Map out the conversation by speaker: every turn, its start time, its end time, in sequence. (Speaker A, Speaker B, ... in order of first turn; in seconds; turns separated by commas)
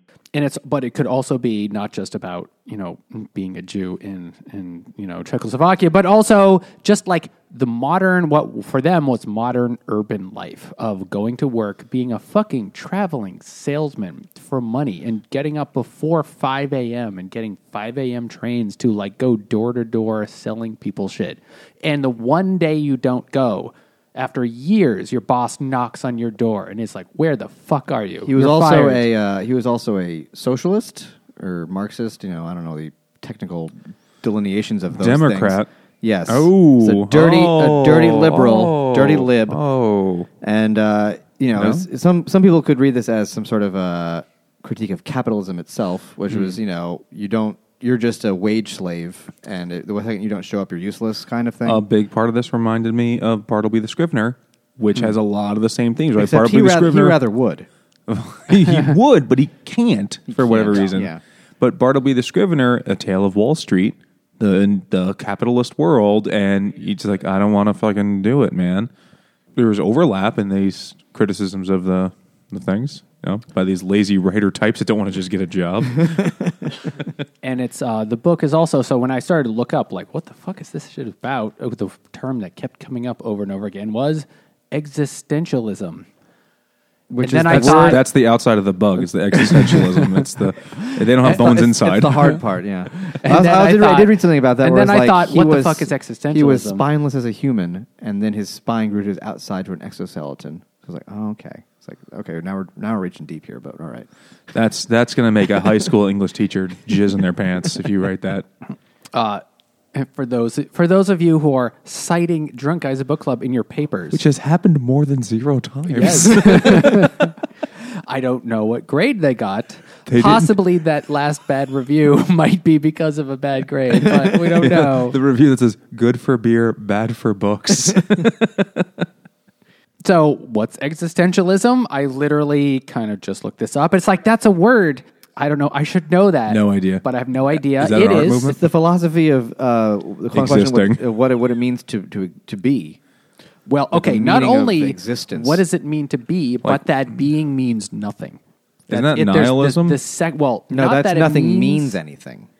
Speaker A: 0.3-29.1, Speaker B: 28.2-39.6, Speaker C: 35.0-35.7, Speaker C: 36.3-40.3, Speaker B: 40.4-51.8, Speaker C: 41.5-41.9, Speaker C: 51.6-57.2, Speaker B: 56.1-57.7, Speaker C: 58.1-68.9, Speaker B: 60.3-61.2, Speaker C: 69.5-76.5, Speaker A: 77.4-86.1, Speaker B: 87.1-88.0, Speaker A: 87.2-88.0, Speaker C: 87.5-92.4, Speaker B: 91.2-104.1, Speaker A: 93.0-96.8, Speaker C: 104.5-108.5, Speaker A: 109.1-109.4, Speaker A: 109.9-114.2, Speaker C: 114.1-117.3, Speaker A: 115.9-125.2, Speaker C: 120.1-120.5, Speaker C: 124.1-129.0, Speaker A: 130.0-138.6, Speaker C: 136.5-138.6, Speaker B: 138.4-143.0, Speaker C: 140.3-141.0, Speaker A: 143.7-152.0, Speaker B: 143.9-145.6, Speaker C: 148.9-150.0, Speaker B: 150.7-152.5